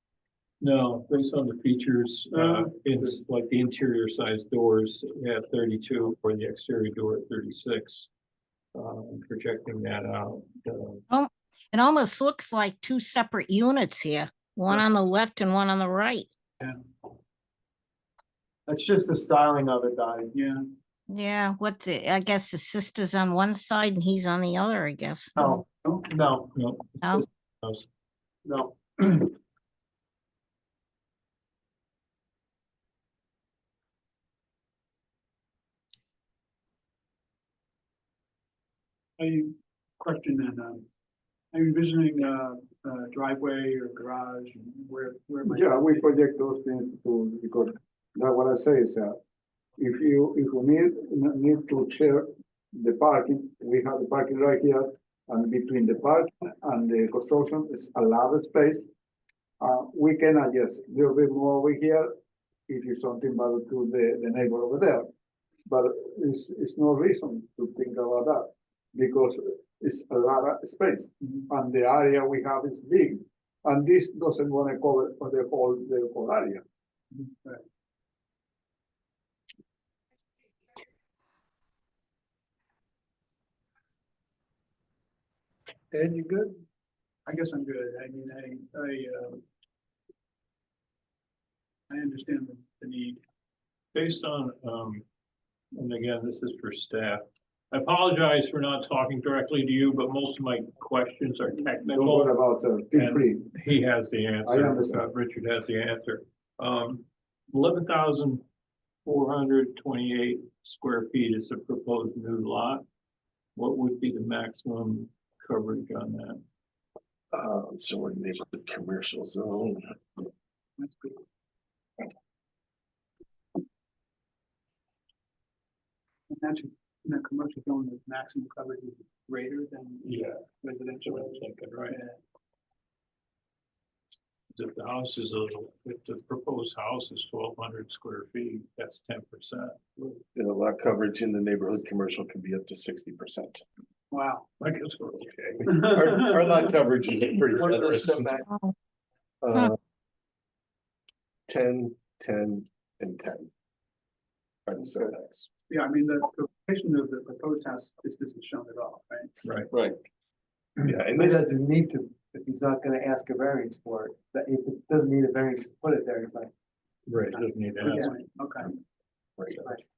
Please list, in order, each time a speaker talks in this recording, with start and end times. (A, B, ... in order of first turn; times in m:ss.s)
0:00.6-0:08.1 A
0:02.3-0:03.1 B
0:08.7-0:11.0 A
0:11.1-0:16.3 C
0:16.6-0:17.1 B
0:18.7-0:20.3 D
0:20.3-0:20.6 B
0:21.1-0:25.4 C
0:25.4-0:26.5 D
0:25.5-0:26.2 B
0:26.5-0:27.9 A
0:28.4-0:29.2 D
0:39.2-0:40.8 B
0:41.5-0:46.1 B
0:45.4-0:49.2 E
0:49.8-0:58.9 E
0:59.6-1:02.1 E
1:02.7-1:05.1 E
1:05.7-1:16.6 E
1:27.2-1:29.4 B
1:31.9-1:33.2 B
1:33.9-1:35.0 A
1:35.7-1:42.4 A
1:41.9-1:43.5 E
1:42.9-1:48.4 A
1:44.4-1:45.0 E
1:49.0-1:52.8 A
1:53.5-1:56.4 A
1:57.3-2:00.2 F
2:00.8-2:01.2 B
2:06.3-2:12.2 B
2:10.0-2:10.4 A
2:11.0-2:12.0 A
2:14.5-2:20.2 A
2:20.3-2:23.6 F
2:24.1-2:24.9 B
2:24.6-2:25.6 A
2:25.5-2:28.4 F
2:25.6-2:26.6 B
2:27.5-2:28.4 D
2:29.4-2:29.8 F
2:31.5-2:33.5 F
2:34.7-2:35.5 F
2:35.7-2:39.4 B
2:39.4-2:39.7 A
2:39.7-2:40.0 F
2:40.8-2:41.4 F
2:40.8-2:46.5 D
2:47.1-2:48.1 A
2:47.8-2:48.8 B
2:49.4-2:49.7 F